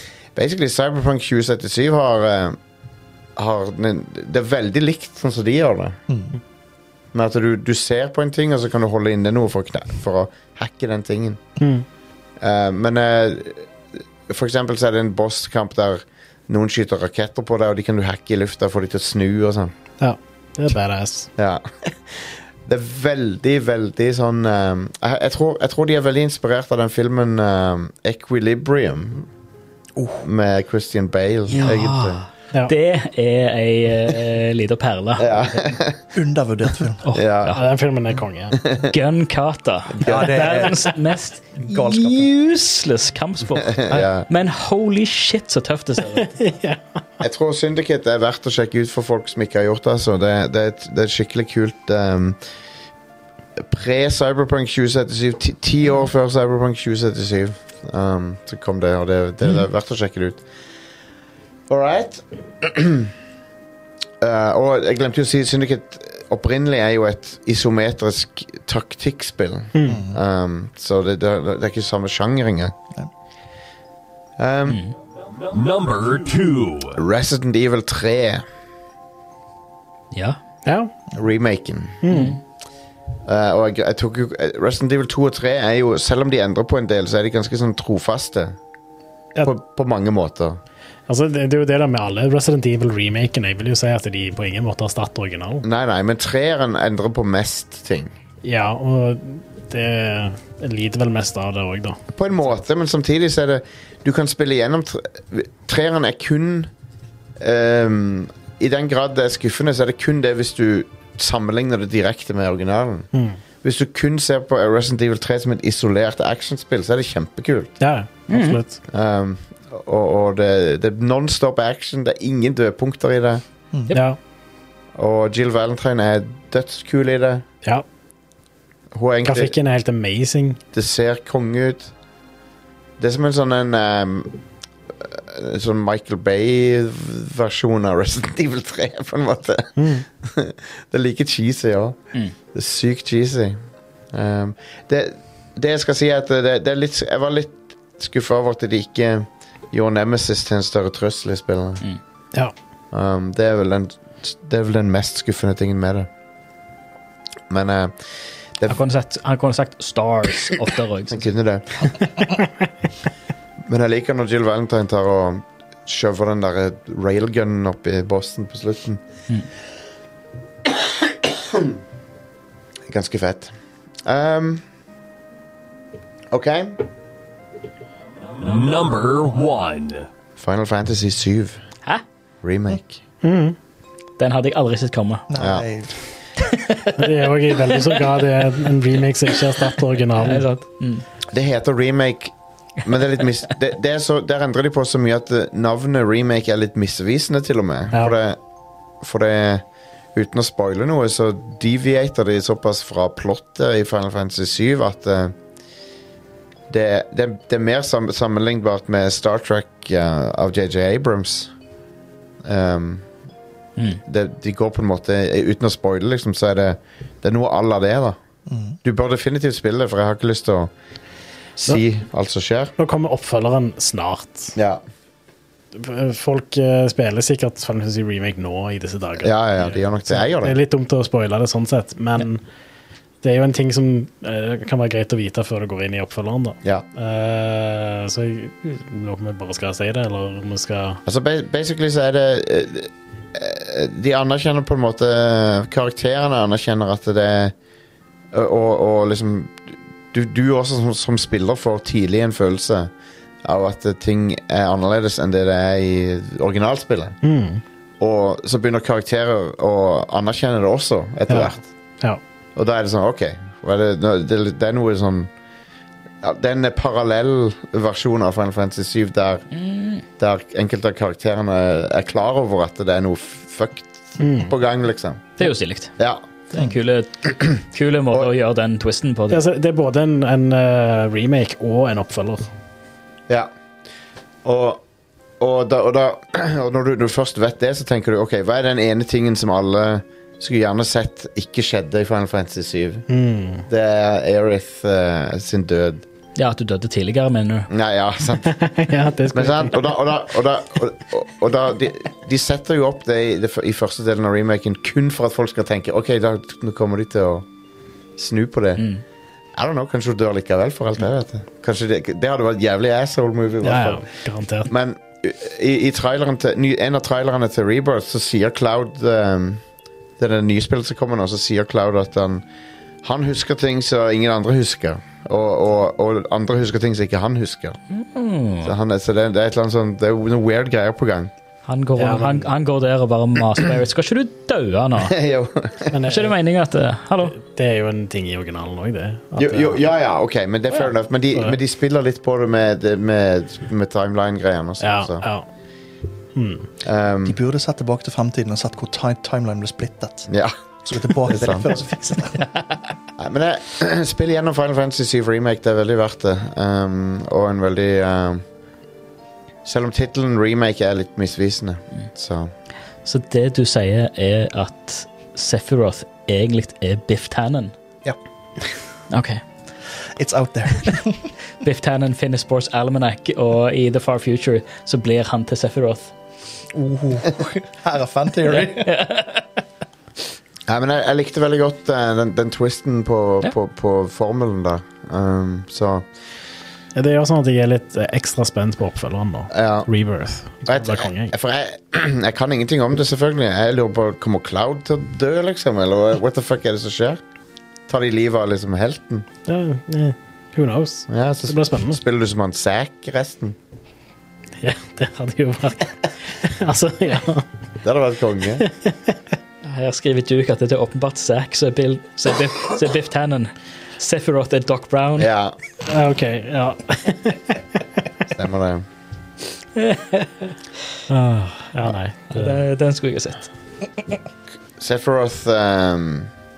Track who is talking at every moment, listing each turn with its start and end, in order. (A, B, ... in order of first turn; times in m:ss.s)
0:00.4-0:02.6 A
0:03.4-0:06.0 A
0:06.1-0:06.4 B
0:07.1-0:11.4 A
0:11.6-0:11.8 C
0:12.4-0:13.7 A
0:14.3-0:19.7 A
0:20.0-0:21.3 C
0:21.4-0:29.3 A
0:30.0-0:30.2 B
0:30.2-0:32.2 A
0:31.5-0:35.4 D
0:35.2-0:36.0 A
0:36.1-0:37.0 B
0:37.0-0:37.6 D
0:37.1-0:37.6 A
0:37.5-0:38.6 C
0:38.6-0:38.9 A
0:38.9-0:46.4 D
0:40.0-0:40.4 A
0:40.0-0:41.0 B
0:41.6-0:42.3 B
0:43.6-0:44.3 A
0:46.2-0:46.8 C
0:47.2-0:52.4 A
0:53.6-1:00.4 A
1:01.7-1:03.1 A
1:04.2-1:12.8 A
1:09.7-1:10.0 C
1:09.8-1:10.2 B
1:14.4-1:14.8 A
1:14.7-1:14.9 D
1:15.2-1:17.0 E
1:17.0-1:18.4 A
1:20.1-1:20.4 D
1:20.7-1:20.9 C
1:21.2-1:22.0 A
1:22.0-1:22.4 C
1:22.1-1:22.4 D
1:23.3-1:28.6 A
1:29.4-1:30.6 A
1:31.1-1:35.6 C
1:35.6-1:38.1 A
1:38.4-1:42.0 C
1:42.1-1:46.7 A
1:47.4-1:53.1 A
1:53.1-1:53.4 C
1:53.6-1:57.7 A
1:57.8-1:58.8 C
1:58.3-1:58.6 D
1:58.9-2:03.4 A
2:03.9-2:04.2 C
2:05.0-2:07.4 A
2:08.9-2:09.5 A
2:09.2-2:10.6 C
2:10.7-2:11.9 A
2:13.0-2:14.4 A
2:15.0-2:22.0 A
2:19.8-2:20.1 C
2:22.5-2:23.6 A
2:24.1-2:31.8 A
2:32.9-2:36.1 A
2:37.5-2:38.0 A
2:38.7-2:41.3 D
2:41.1-2:42.0 A
2:43.7-2:49.0 A
2:50.7-2:51.8 A
2:52.9-2:53.5 A
2:54.0-2:54.6 A
2:56.3-2:56.8 A
2:58.4-3:00.1 E
3:00.4-3:01.6 A
3:02.4-3:03.0 A
3:03.2-3:03.6 C
3:04.2-3:05.2 D
3:05.3-3:06.0 B
3:05.4-3:05.7 A
3:06.4-3:08.2 D
3:07.0-3:10.4 C
3:10.2-3:11.0 D
3:11.3-3:18.4 A
3:19.0-3:25.4 A
3:26.7-3:31.5 A
3:32.4-3:33.0 A
3:34.0-3:38.2 A
3:38.5-3:38.8 B
3:38.8-3:40.7 A
3:41.6-3:42.7 A
3:42.8-3:44.6 C
3:44.6-3:44.8 A
3:45.7-3:52.4 C
3:49.2-3:50.6 A
3:53.2-4:01.0 C
4:01.1-4:07.5 A
4:08.3-4:12.9 A
4:13.4-4:17.2 A
4:17.2-4:17.6 C
4:18.0-4:21.6 A
4:21.3-4:22.2 C
4:22.6-4:25.3 A
4:26.2-4:29.5 A
4:29.6-4:30.0 D
4:30.2-4:35.4 A
4:34.2-4:34.5 C
4:35.4-4:36.0 D
4:36.5-4:39.4 D
4:39.3-4:42.5 C
4:44.4-4:44.8 A
4:45.4-4:53.1 A
4:53.1-4:53.6 C
4:53.7-4:56.0 A
4:56.4-4:57.7 D
4:57.7-4:58.6 A
4:58.4-4:59.8 C
4:59.3-5:07.5 A
5:08.2-5:08.8 A
5:09.6-5:14.0 A
5:13.6-5:14.7 C
5:14.7-5:19.6 A
5:20.2-5:22.4 A
5:23.0-5:27.8 A
5:27.9-5:28.7 D
5:28.6-5:31.3 A
5:31.7-5:35.2 D
5:32.0-5:32.5 C
5:35.0-5:36.0 A
5:35.9-5:36.4 C
5:36.1-5:37.4 D
5:37.3-5:39.8 C
5:39.4-5:45.3 A
5:44.8-5:45.5 C
5:46.4-5:46.7 C
5:46.8-5:47.4 A
5:47.3-5:50.3 B
5:50.3-5:50.6 A
5:50.8-5:52.5 B
5:51.2-5:51.7 A
5:53.2-5:58.4 A
5:59.6-6:02.5 A
6:03.0-6:07.7 D
6:09.1-6:09.4 D
6:10.2-6:11.3 B
6:11.6-6:16.1 D
6:16.7-6:18.9 B
6:18.4-6:19.5 D
6:20.7-6:26.1 A
6:27.0-6:31.3 C
6:29.5-6:29.9 A
6:30.7-6:37.2 A
6:37.9-6:39.3 A
6:39.5-6:42.0 C
6:41.1-6:43.6 A
6:44.6-6:47.5 C
6:47.8-6:48.7 A
6:48.6-6:49.2 C
6:49.6-6:55.3 D
6:55.2-6:55.6 A
6:55.9-6:57.6 C
6:58.3-6:58.8 A
6:59.8-7:00.3 D
7:01.1-7:02.6 C
7:02.3-7:03.5 D
7:04.8-7:06.3 A